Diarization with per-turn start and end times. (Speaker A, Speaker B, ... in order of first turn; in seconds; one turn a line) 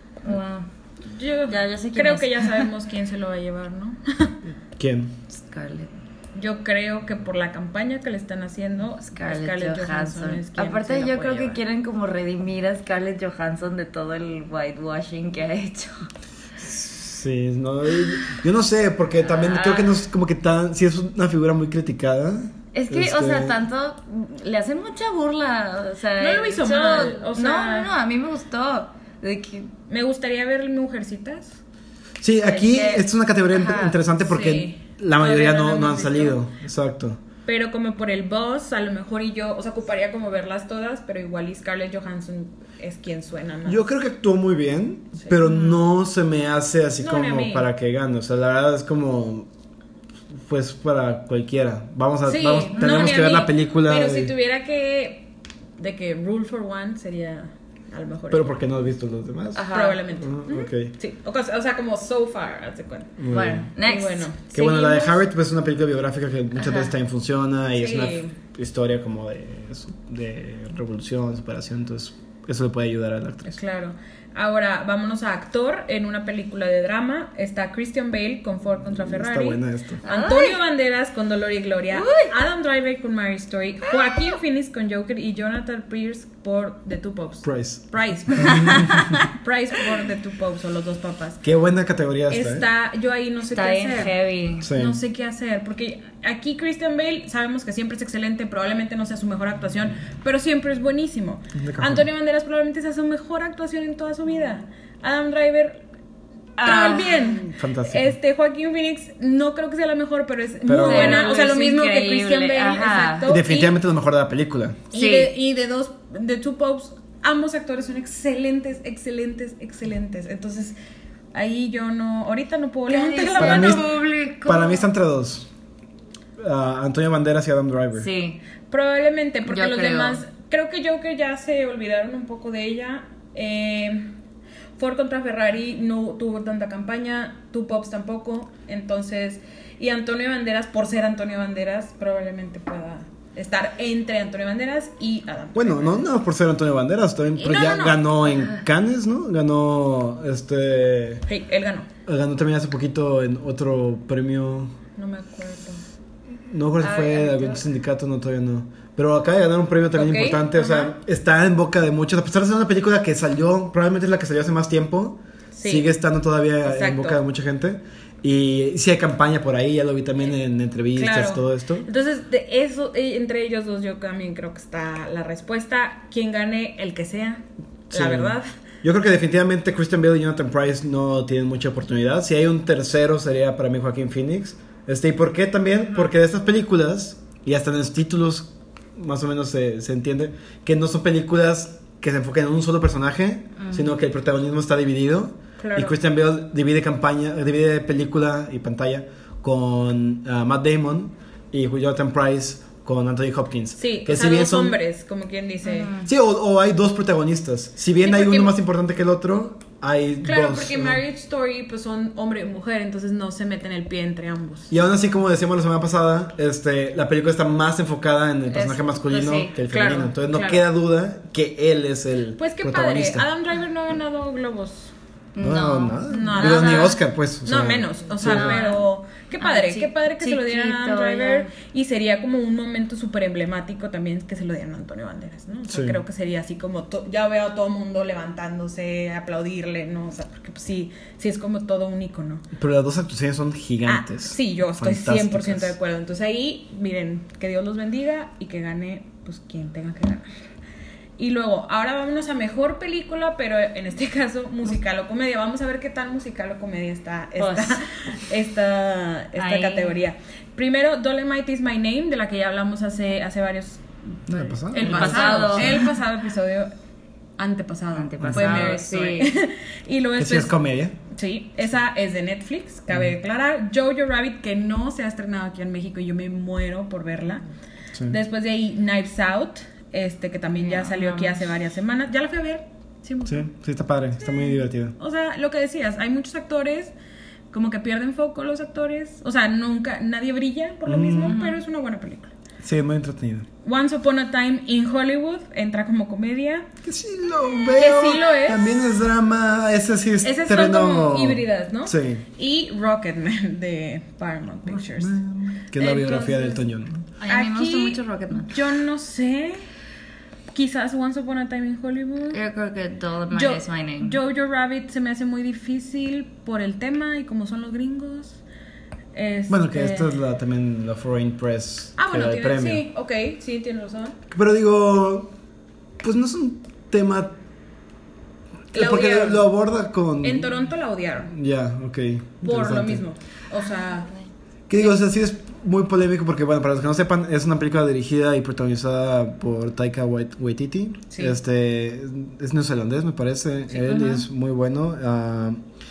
Speaker A: 0.2-0.7
Speaker B: 1.0-4.4
Speaker A: 1.5-2.7
Speaker C: 4.8-5.1
Speaker A: 5.3-5.9
Speaker B: 6.3-11.6
Speaker A: 9.1-16.1
Speaker C: 16.6-23.5
Speaker A: 19.2-20.0
Speaker A: 22.7-29.7
Speaker B: 26.2-27.9
Speaker B: 29.9-31.6
Speaker C: 32.2-37.2
Speaker B: 32.5-33.0
Speaker A: 32.6-33.0
Speaker A: 33.5-34.0
Speaker B: 34.2-36.4
Speaker B: 37.5-43.8
Speaker C: 43.6-49.5
Speaker A: 45.4-45.8
Speaker B: 47.0-47.7
Speaker C: 50.4-54.3
Speaker B: 52.2-58.5
Speaker A: 52.7-53.4
Speaker C: 58.3-60.9
Speaker A: 59.5-60.0
Speaker B: 59.7-63.1
Speaker C: 63.2-63.7
Speaker A: 63.3-64.4
Speaker B: 63.8-65.2
Speaker C: 64.5-73.6
Speaker A: 66.6-66.9
Speaker B: 67.7-68.3
Speaker B: 73.5-91.4
Speaker C: 79.0-80.0
Speaker A: 80.0-80.6
Speaker A: 81.9-82.4
Speaker A: 83.9-84.2
Speaker C: 87.4-89.1
Speaker A: 88.5-89.0
Speaker C: 91.4-92.6
Speaker B: 92.3-94.1
Speaker A: 93.5-94.7
Speaker C: 94.6-95.0
Speaker B: 94.7-105.8
Speaker C: 101.5-102.1
Speaker A: 106.6-107.3
Speaker B: 106.6-113.8
Speaker C: 107.4-108.2
Speaker C: 110.6-111.3
Speaker A: 110.8-113.3
Speaker C: 113.3-114.8
Speaker B: 114.9-120.8
Speaker A: 114.9-115.3
Speaker B: 121.3-123.9
Speaker A: 122.9-124.9
Speaker C: 123.4-125.5
Speaker C: 126.4-128.1
Speaker A: 128.0-128.4
Speaker B: 128.7-134.1
Speaker A: 129.5-130.2
Speaker B: 134.8-146.1
Speaker C: 145.5-151.2
Speaker B: 147.3-148.2
Speaker A: 148.3-148.6
Speaker B: 151.3-151.9
Speaker C: 152.1-154.7
Speaker B: 155.0-155.8
Speaker C: 156.4-171.8
Speaker A: 156.8-157.6
Speaker B: 159.9-160.9
Speaker B: 165.5-165.9
Speaker B: 166.6-167.2
Speaker B: 170.9-178.5
Speaker C: 177.9-204.8
Speaker A: 193.6-193.9
Speaker B: 195.6-196.0
Speaker B: 203.8-205.9
Speaker A: 205.6-206.1
Speaker C: 206.0-211.0
Speaker B: 208.0-208.5
Speaker B: 210.2-214.7
Speaker C: 214.7-223.3
Speaker A: 218.5-219.5
Speaker B: 219.7-220.6
Speaker B: 222.4-224.9
Speaker A: 225.3-227.0
Speaker C: 225.4-228.6
Speaker B: 226.1-242.4
Speaker A: 228.2-228.8
Speaker A: 229.4-231.5
Speaker C: 235.7-236.0
Speaker C: 242.5-245.7
Speaker B: 243.8-250.3
Speaker B: 251.2-266.7
Speaker A: 257.4-257.8
Speaker A: 259.4-260.0
Speaker C: 264.3-265.8
Speaker A: 264.8-265.9
Speaker B: 267.4-270.5
Speaker A: 267.9-269.3
Speaker C: 268.2-268.7
Speaker C: 270.2-270.9
Speaker B: 271.1-277.4
Speaker B: 278.1-283.5
Speaker A: 280.6-281.5
Speaker C: 283.2-284.9
Speaker B: 284.2-286.9
Speaker B: 287.5-292.3
Speaker C: 290.9-291.4
Speaker A: 291.3-291.6
Speaker C: 292.6-293.5
Speaker B: 293.6-296.7
Speaker C: 296.8-302.2
Speaker B: 297.7-298.9
Speaker B: 300.2-305.1
Speaker C: 304.7-307.1
Speaker B: 305.7-306.6
Speaker A: 307.2-308.6
Speaker B: 307.2-309.6
Speaker B: 310.5-312.4
Speaker A: 312.3-314.2
Speaker B: 313.3-318.4
Speaker B: 319.1-320.2
Speaker C: 319.5-322.9
Speaker B: 322.0-324.2
Speaker C: 324.3-325.3
Speaker C: 326.0-327.4
Speaker C: 328.7-330.5
Speaker B: 328.7-329.5
Speaker B: 330.2-331.3
Speaker C: 331.3-333.0
Speaker B: 332.4-334.1
Speaker C: 334.7-345.6
Speaker B: 341.1-341.4
Speaker A: 343.8-344.2